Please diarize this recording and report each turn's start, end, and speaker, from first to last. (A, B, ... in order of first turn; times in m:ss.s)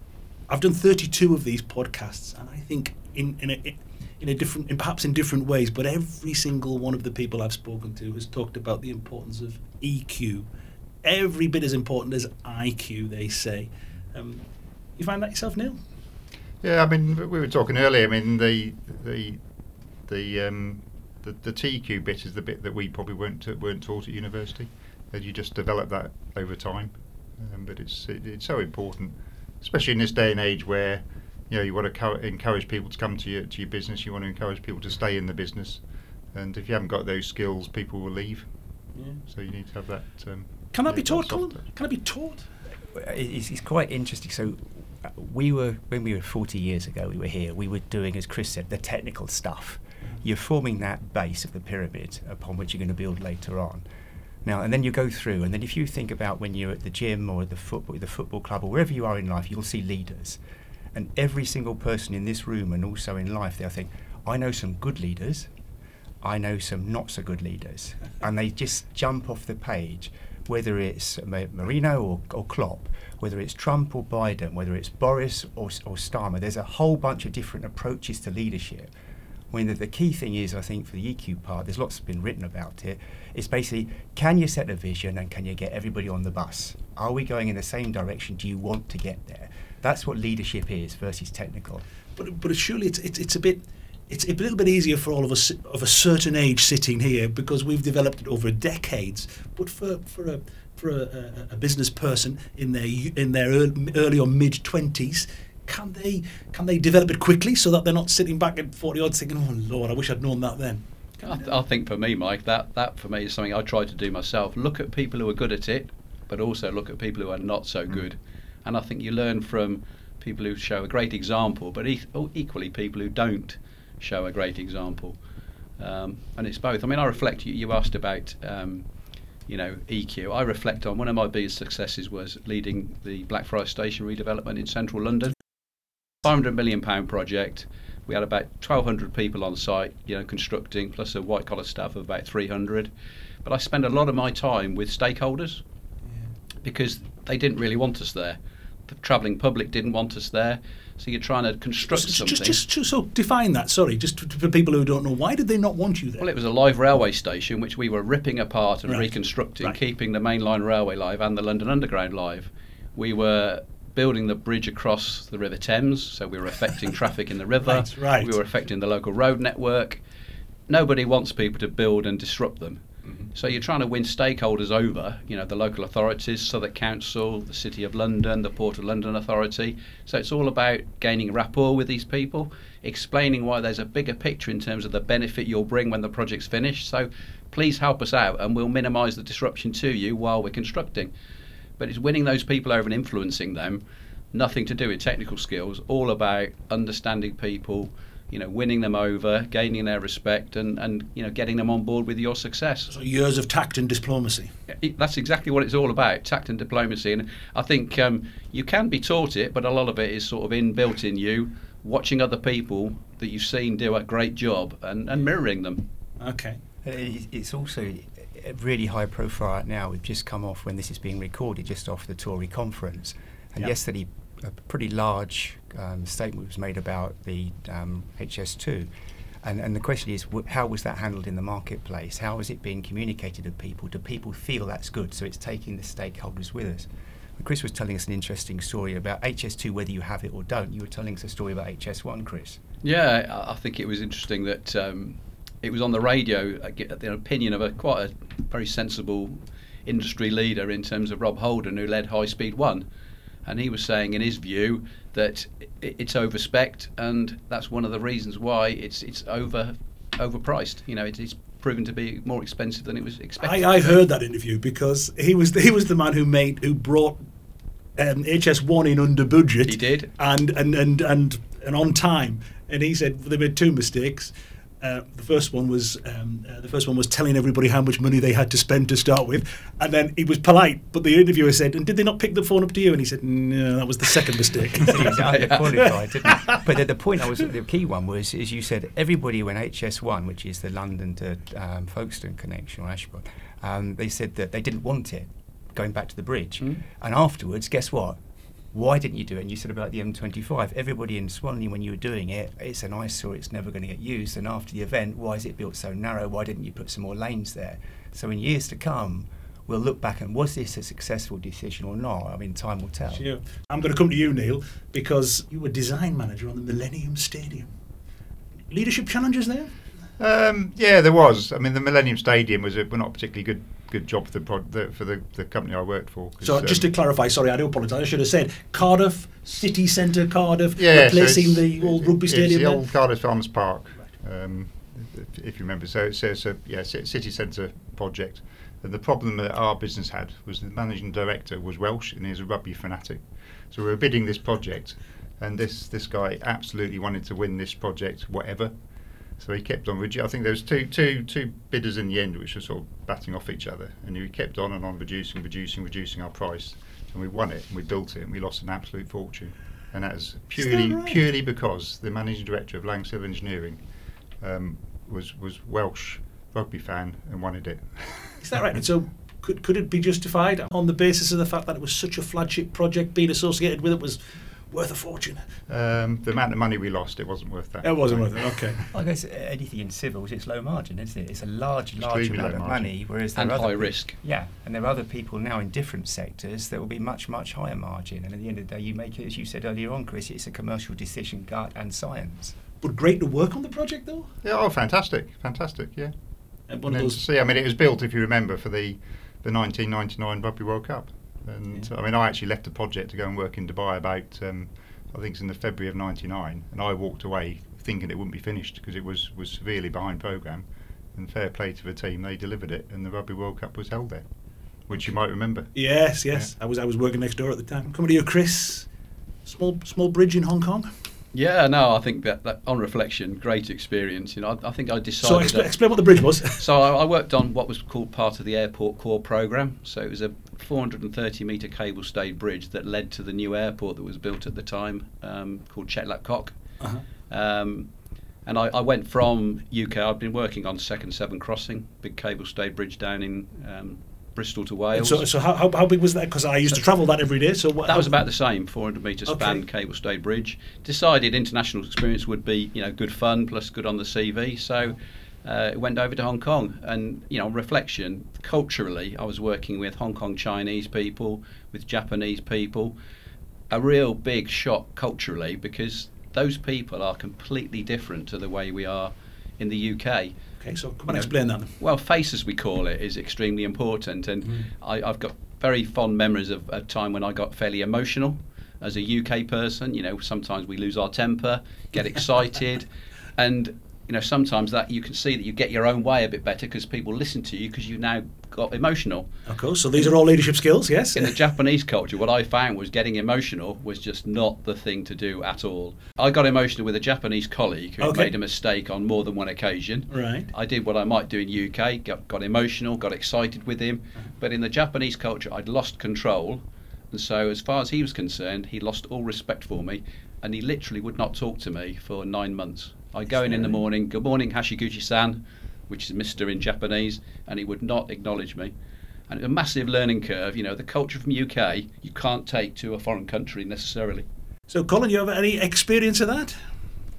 0:00.5-0:10.5 A
0:11.0-0:15.8 A
0:16.6-0:19.4 B
0:20.1-0:38.5 B
0:39.0-0:39.2 A
0:39.2-0:41.6 B
0:40.7-0:42.5 A
0:42.9-0:53.8 C
0:54.4-1:00.4 C
1:00.9-1:05.5 C
1:06.2-1:18.9 C
1:19.5-1:31.8 C
1:32.2-1:51.6 A
1:51.2-2:05.2 D
2:05.8-2:08.9 D
2:09.5-2:15.4 D
2:16.2-2:22.9 D
2:23.4-2:25.6 D
2:26.6-2:32.6 D
2:31.8-2:36.3 A
2:36.2-2:50.0 D
2:38.9-2:39.8 A
2:47.6-2:48.4 A
2:50.7-3:11.1 D
3:11.8-3:22.9 D
3:22.9-3:24.6 A
3:24.7-3:35.8 D
3:36.2-3:36.6 A
3:36.8-3:48.9 C
3:49.4-4:02.6 C
4:02.8-4:12.9 D
4:13.4-4:23.7 D
4:23.4-4:27.2 A
4:28.0-4:46.5 A
4:29.6-4:30.1 D
4:44.8-4:58.2 C
4:45.2-4:45.6 D
4:58.7-5:13.3 C
5:13.1-5:17.7 A
5:18.7-5:19.8 A
5:20.2-5:26.9 B
5:26.4-5:32.8 A
5:30.8-5:48.8 B
5:49.4-6:03.8 B
6:00.6-6:01.2 A
6:04.4-6:08.4 B
6:08.4-6:15.4 A
6:15.7-6:18.8 B
6:17.8-6:18.8 A
6:18.9-6:32.6 C
6:22.0-6:22.9 B
6:23.4-6:24.2 D
6:32.8-6:34.3 A
6:34.4-6:36.1 B
6:36.7-6:54.3 B
6:36.7-6:37.2 A
6:54.9-6:56.5 B
6:55.7-6:58.9 A
6:59.4-7:00.9 A
7:01.3-7:05.7 D
7:05.2-7:06.6 A
7:06.5-7:16.6 D
7:16.8-7:17.0 A
7:17.3-7:17.9 D
7:18.4-7:25.3 D
7:25.0-7:28.1 A
7:27.8-7:43.0 D
7:29.3-7:29.6 A
7:43.7-7:50.4 D
7:50.6-7:51.8 A
7:51.1-8:09.3 D
8:09.5-8:11.4 A
8:11.1-8:38.7 D
8:18.0-8:18.3 A
8:20.1-8:20.5 A
8:33.5-8:33.7 A
8:39.3-8:44.2 D
8:44.7-8:46.6 A